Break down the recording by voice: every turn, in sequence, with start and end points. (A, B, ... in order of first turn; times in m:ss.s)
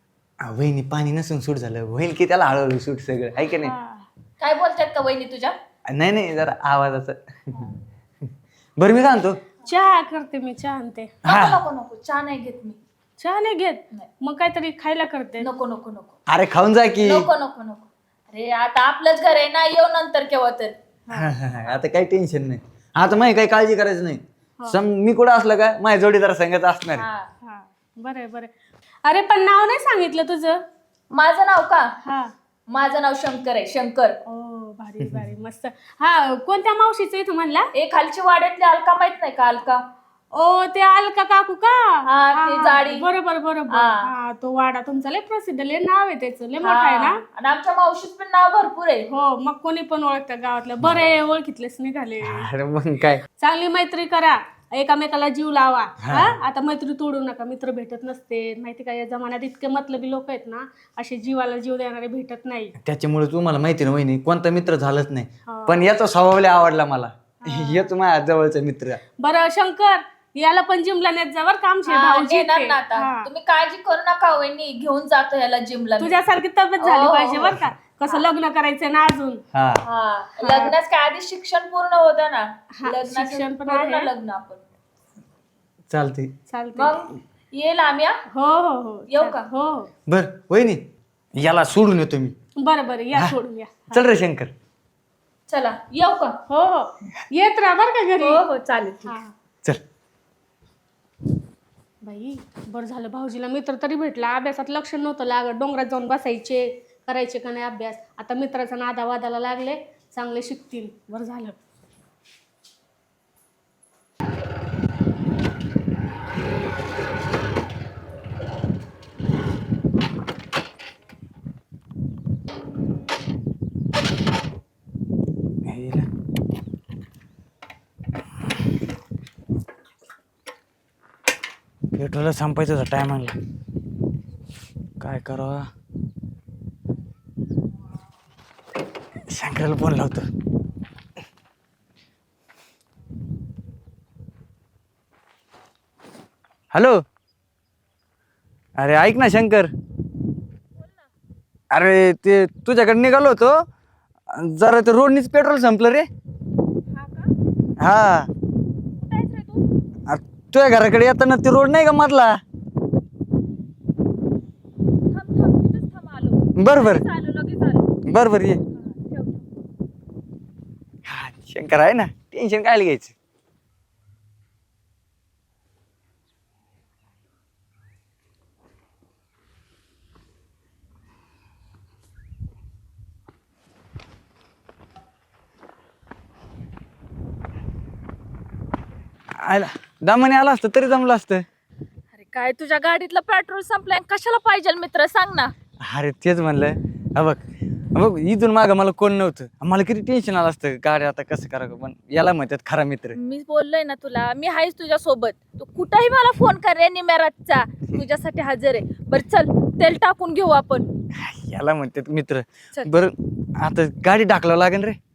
0:00.4-0:03.7 A
0:03.6-0:04.0 B
0:04.4-0:05.6 C
0:05.9-0:07.6 A
0:08.8-0:09.4 A
0:09.7-0:11.1 B
0:11.2-0:11.6 A
0:11.2-0:12.8 C
0:13.2-0:15.4 B
0:15.4-0:16.2 C
0:16.3-0:17.3 A
0:17.0-0:20.7 C
0:21.1-0:27.1 A
0:27.0-0:27.3 C
0:27.4-0:28.5 B
0:29.0-0:30.6 B
0:31.1-0:31.9 C
0:32.0-0:32.3 B
0:32.7-0:34.2 C
0:34.3-0:37.7 B
0:35.0-0:35.3 A
0:37.7-0:39.8 C
0:40.3-0:47.2 B
0:42.0-0:43.1 C
0:43.7-0:44.1 C
0:46.6-0:49.1 C
0:49.1-0:52.5 B
0:52.2-0:53.2 A
0:53.4-1:02.7 B
0:56.0-0:56.3 A
1:02.8-1:09.0 A
1:05.5-1:05.8 B
1:07.4-1:07.9 B
1:09.2-1:13.3 B
1:11.9-1:16.2 C
1:16.0-1:19.4 B
1:16.8-1:18.3 C
1:19.5-1:19.8 A
1:19.8-1:24.6 C
1:20.4-1:20.7 B
1:22.8-1:24.1 B
1:25.9-1:26.3 A
1:26.5-1:27.0 B
1:26.7-1:28.2 C
1:28.3-1:29.9 B
1:29.1-1:29.5 C
1:30.1-1:30.8 A
1:31.4-1:32.3 A
1:32.6-1:34.0 B
1:33.9-1:34.5 A
1:35.5-1:36.3 C
1:36.5-1:38.4 B
1:38.2-1:39.2 C
1:39.1-1:39.3 B
1:42.0-1:51.6 B
2:05.6-2:06.1 A
2:11.9-2:13.4 A
2:15.0-2:15.7 A
2:19.3-2:20.3 A
2:26.7-2:27.0 A
2:28.8-2:29.7 A
2:31.7-2:33.6 A
2:34.3-2:36.1 A
2:36.9-2:37.3 C
2:37.8-2:38.3 A
2:39.1-2:39.6 C
2:40.1-2:42.4 A
2:45.1-2:47.9 C
2:46.6-2:47.0 A
2:48.0-2:48.6 A
2:48.8-2:49.5 C
2:51.0-2:53.1 A
3:09.4-3:11.4 A
3:12.1-3:15.5 C
3:15.8-3:23.2 A
3:23.1-3:30.9 C
3:31.1-3:35.0 A